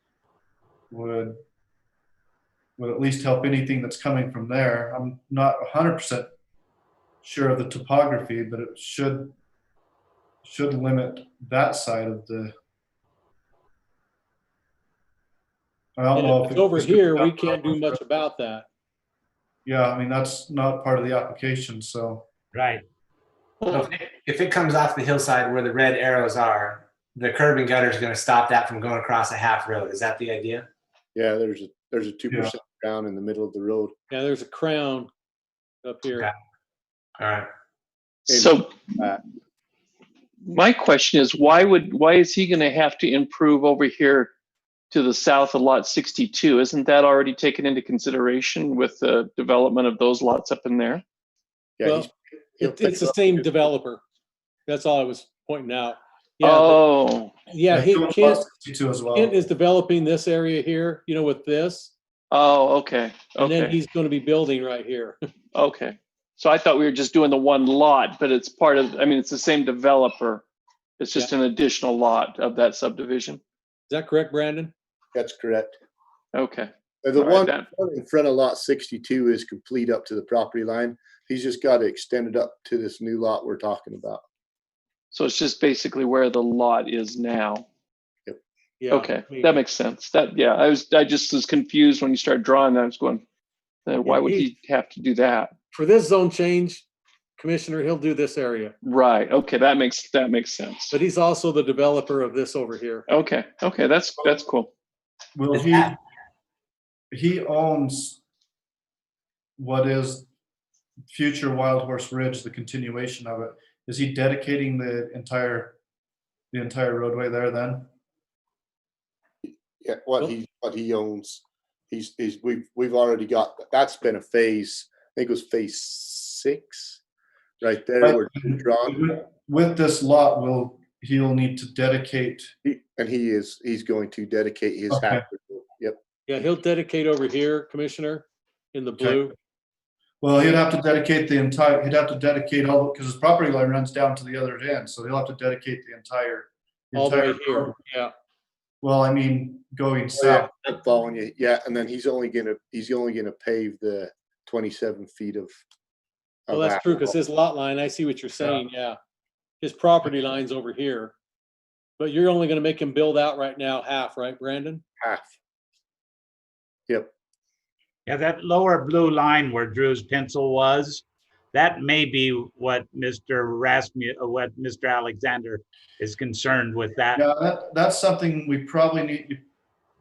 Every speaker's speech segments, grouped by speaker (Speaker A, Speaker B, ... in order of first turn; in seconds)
Speaker A: 0.9-1.4, 2.8-6.3, 7.2-9.3, 10.4-12.5, 16.0-18.0, 19.7-22.2, 57.7-59.4, 105.3-106.0, 107.1-108.2, 109.6-110.3, 111.1-115.8, 116.5-117.9, 128.0-132.5, 134.9-135.2, 139.0-139.3, 140.2-147.8, 148.8-150.5, 177.1-179.4
Speaker B: 16.1-18.7, 34.1-35.1, 35.8-36.3, 52.6-54.0, 54.7-56.9, 57.5-58.5, 59.1-61.9, 63.4-65.2, 73.9-74.7, 88.8-89.6, 94.0-94.5, 95.7-96.9, 97.4-98.7, 100.9-103.1, 136.3-139.3, 146.9-148.1, 156.5-159.0, 159.6-161.1, 162.0-164.8
Speaker C: 22.5-22.8, 168.1-177.2
Speaker D: 23.7-30.7, 37.2-37.5, 105.5-105.9
Speaker E: 31.1-33.9, 38.3-39.2, 51.8-53.5, 75.1-75.8, 77.0-84.2, 119.4-127.0, 127.6-129.0, 132.6-136.0, 150.2-155.6, 156.5-157.2, 165.0-165.4
Speaker F: 38.3-38.9, 40.5-44.3, 44.9-51.0, 56.4-57.3, 62.3-63.8, 65.5-70.5, 71.0-73.4, 76.3-77.7, 85.1-87.7, 88.9-93.2, 93.9-95.5, 98.8-101.0, 103.1-104.7